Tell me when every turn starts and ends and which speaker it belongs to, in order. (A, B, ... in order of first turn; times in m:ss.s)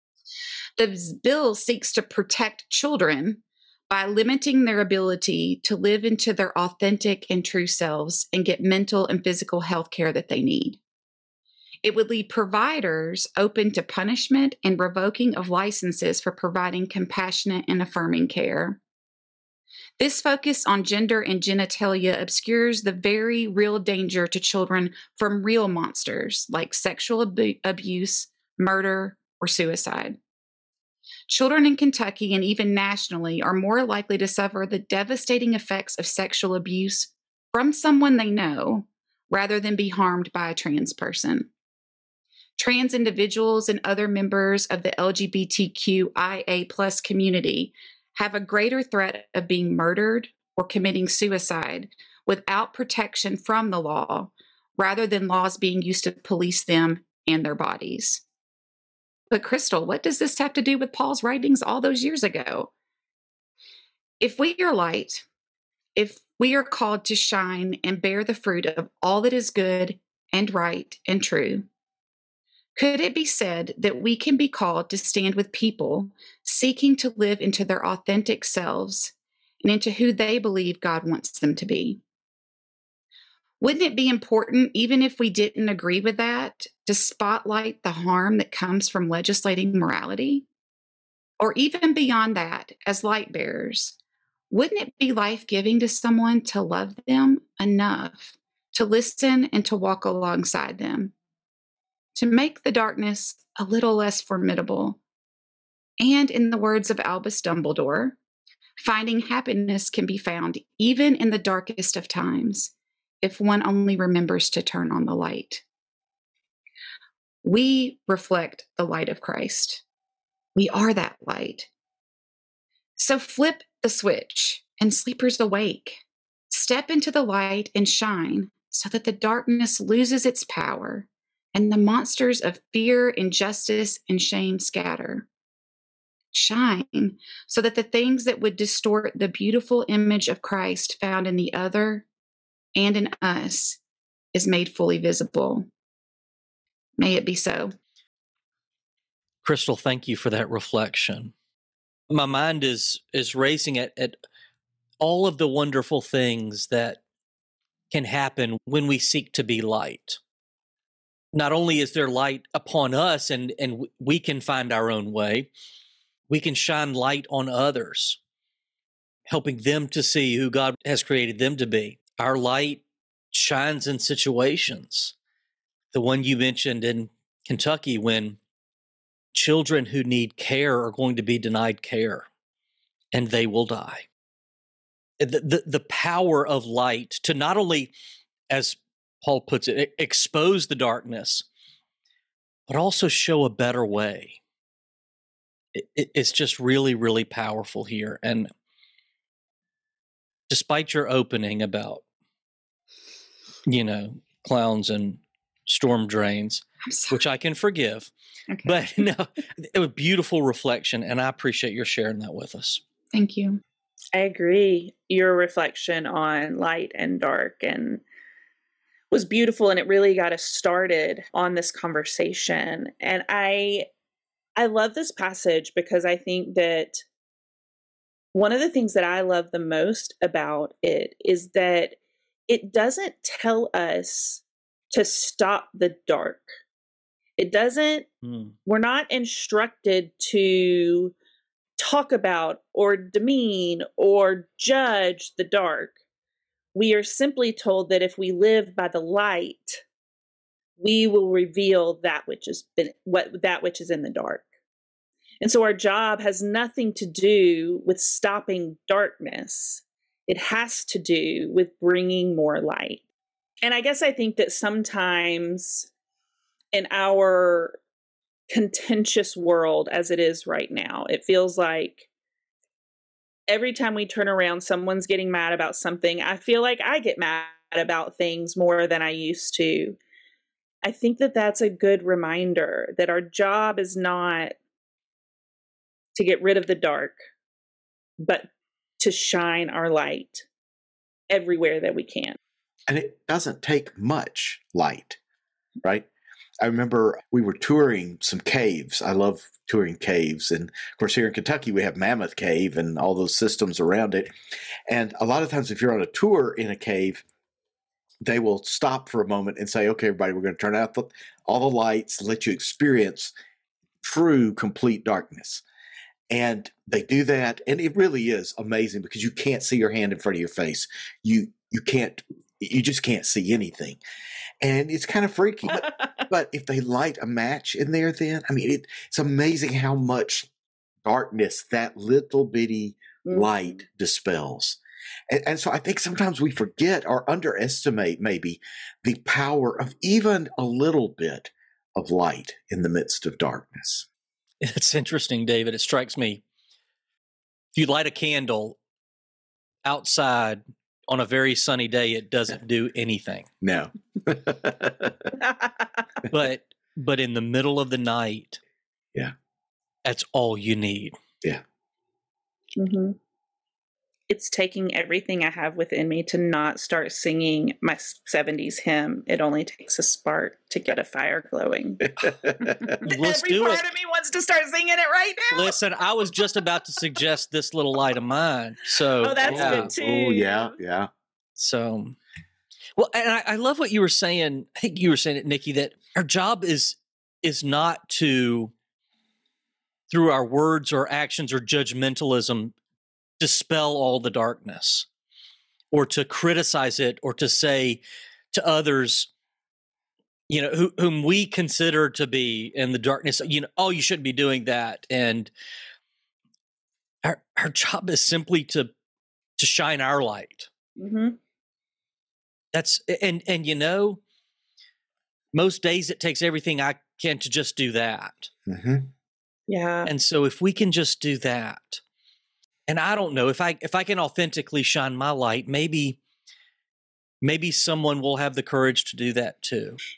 0:00.8-0:10.8 A
0:11.8-0:18.8 A
0:20.0-0:30.2 A
0:31.3-0:41.5 A
0:42.6-0:58.2 A
0:59.3-1:02.7 A
1:04.2-1:05.2 A
1:06.0-1:11.7 A
1:12.7-1:22.0 A
1:23.6-1:30.4 A
1:31.4-1:34.0 A
1:34.5-1:41.1 A
1:42.1-1:45.0 A
1:46.0-1:48.2 A
1:48.8-1:55.6 A
1:57.4-1:59.8 A
2:00.6-2:01.7 A
2:03.0-2:15.3 A
2:16.3-2:22.0 A
2:22.8-2:23.8 A
2:24.3-2:25.7 A
2:27.0-2:27.7 A
2:29.4-2:31.3 B
2:32.1-2:34.2 B
2:35.0-2:37.0 B
2:37.9-2:40.2 B
2:41.3-2:45.5 B
2:46.3-2:48.2 B
2:49.3-2:55.1 B
2:55.9-2:58.4 B
2:59.3-3:02.2 B
3:03.1-3:04.0 B
3:05.2-3:07.9 B
3:08.5-3:11.4 B
3:12.7-3:14.4 B
3:15.7-3:18.5 B
3:20.5-3:22.0 B
3:23.6-3:28.1 B
3:26.8-3:27.2 A
3:28.5-3:28.9 A
3:28.6-3:32.8 B
3:33.1-3:33.6 A
3:34.1-3:38.0 C
3:39.1-3:43.9 C
3:44.6-3:47.0 C
3:48.3-3:52.0 C
3:52.5-3:56.4 C
3:57.4-3:58.1 C
3:58.2-3:58.5 B
3:58.6-4:01.1 C
4:01.8-4:06.0 C
4:06.7-4:09.8 C
4:10.8-4:14.4 C
4:15.4-4:23.0 C
4:23.6-4:25.9 C
4:26.7-4:27.8 C
4:28.5-4:32.0 C
4:33.5-4:40.0 C
4:40.8-4:44.6 C
4:46.1-4:47.2 C
4:48.2-4:50.4 C
4:51.3-4:52.4 C
4:52.9-4:55.2 D
4:55.8-4:56.1 D
4:56.6-5:04.3 D
5:04.9-5:07.2 D
5:08.2-5:13.3 D
5:14.0-5:15.6 D
5:16.3-5:24.0 D
5:24.6-5:30.5 D
5:25.7-5:26.1 C
5:31.0-5:44.1 D
5:33.3-5:33.8 C
5:44.6-5:46.4 B
5:47.8-5:48.8 B
5:49.8-5:53.5 B
5:53.6-5:55.3 D
5:55.4-5:56.0 C
5:56.3-5:58.6 B
6:00.0-6:01.1 B
6:02.8-6:03.2 C
6:04.3-6:12.1 C
6:12.2-6:13.0 D
6:13.0-6:15.8 C
6:13.0-6:13.9 B
6:15.5-6:19.9 B
6:19.2-6:20.8 C
6:19.4-6:21.1 D
6:21.6-6:22.2 B
6:23.0-6:28.7 B
6:30.1-6:32.7 B
6:33.4-6:35.1 B
6:35.9-6:39.3 B
6:40.5-6:45.5 B
6:47.2-6:48.9 B
6:49.6-6:50.7 B
6:51.0-6:51.4 C
6:52.7-6:54.2 B
6:55.5-6:58.5 B
6:58.6-6:59.1 D
6:59.7-7:00.1 C
7:00.0-7:02.0 B
7:02.9-7:06.2 B
7:07.4-7:10.0 B